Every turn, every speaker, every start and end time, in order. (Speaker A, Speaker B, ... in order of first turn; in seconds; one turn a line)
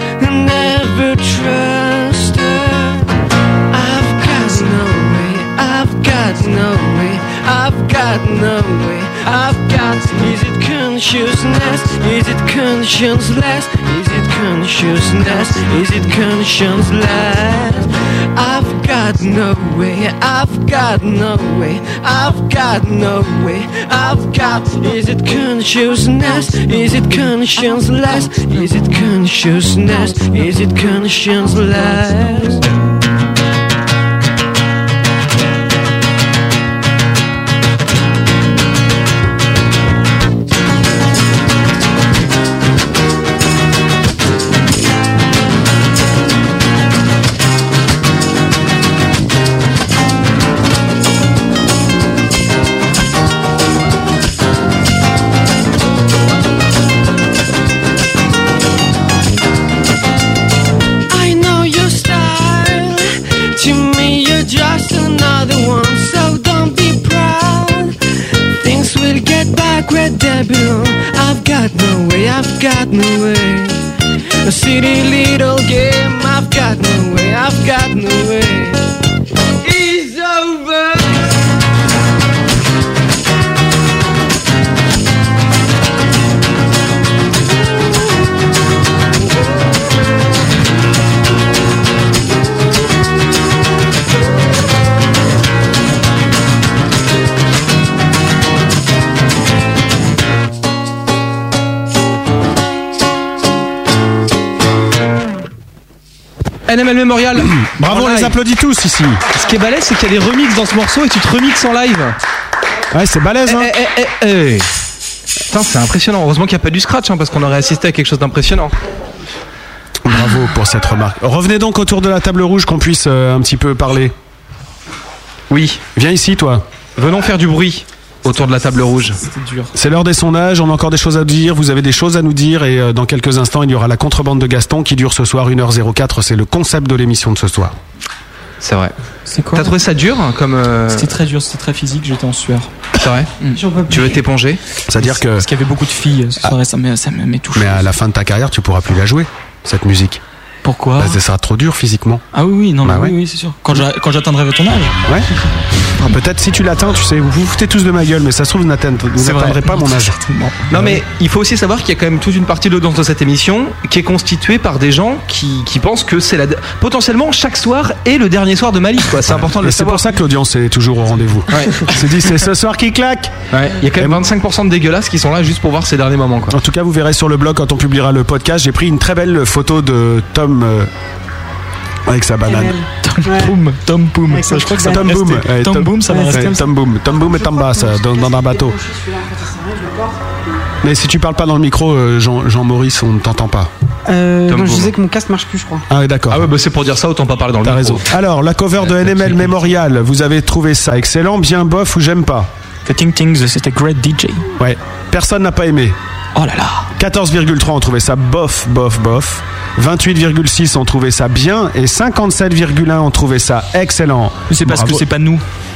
Speaker A: 0.2-3.1
Speaker A: 3.7-32.6
Speaker A: 61.1-67.9
Speaker A: 68.5-73.8
Speaker A: 74.4-78.8
Speaker A: 79.6-81.3
Speaker B: 106.7-108.3
Speaker C: 107.6-109.2
Speaker B: 109.3-112.2
Speaker C: 112.9-113.7
Speaker B: 113.5-114.7
Speaker B: 115.5-118.7
Speaker C: 120.0-124.1
Speaker B: 125.5-125.8
Speaker C: 125.9-126.6
Speaker B: 127.0-129.2
Speaker D: 129.2-129.7
Speaker C: 129.7-137.8
Speaker B: 138.6-138.9
Speaker D: 139.3-139.7
Speaker B: 139.5-141.1
Speaker D: 140.9-142.7
Speaker B: 143.0-143.3
Speaker E: 143.5-144.2
Speaker B: 143.9-144.6
Speaker C: 144.9-145.5
Speaker D: 145.0-147.8
Speaker C: 147.5-150.2
Speaker D: 150.6-151.2
Speaker C: 151.0-152.2
Speaker D: 152.3-154.9
Speaker C: 152.8-153.1
Speaker C: 156.0-160.2
Speaker D: 159.2-160.7
Speaker B: 160.7-170.1
Speaker C: 160.7-161.0
Speaker C: 169.2-173.3
Speaker B: 171.5-171.9
Speaker B: 173.5-176.6
Speaker C: 176.5-180.9
Speaker C: 182.1-182.8
Speaker E: 182.4-183.5
Speaker D: 183.0-186.6
Speaker E: 184.3-185.1
Speaker C: 184.8-188.8
Speaker E: 186.1-190.4
Speaker C: 190.8-193.7
Speaker E: 194.1-195.8
Speaker B: 194.5-194.9
Speaker C: 195.9-196.5
Speaker B: 196.3-198.1
Speaker C: 197.6-202.5
Speaker D: 202.8-204.4
Speaker C: 204.6-206.0
Speaker D: 206.3-206.9
Speaker C: 207.0-215.0
Speaker D: 214.5-215.4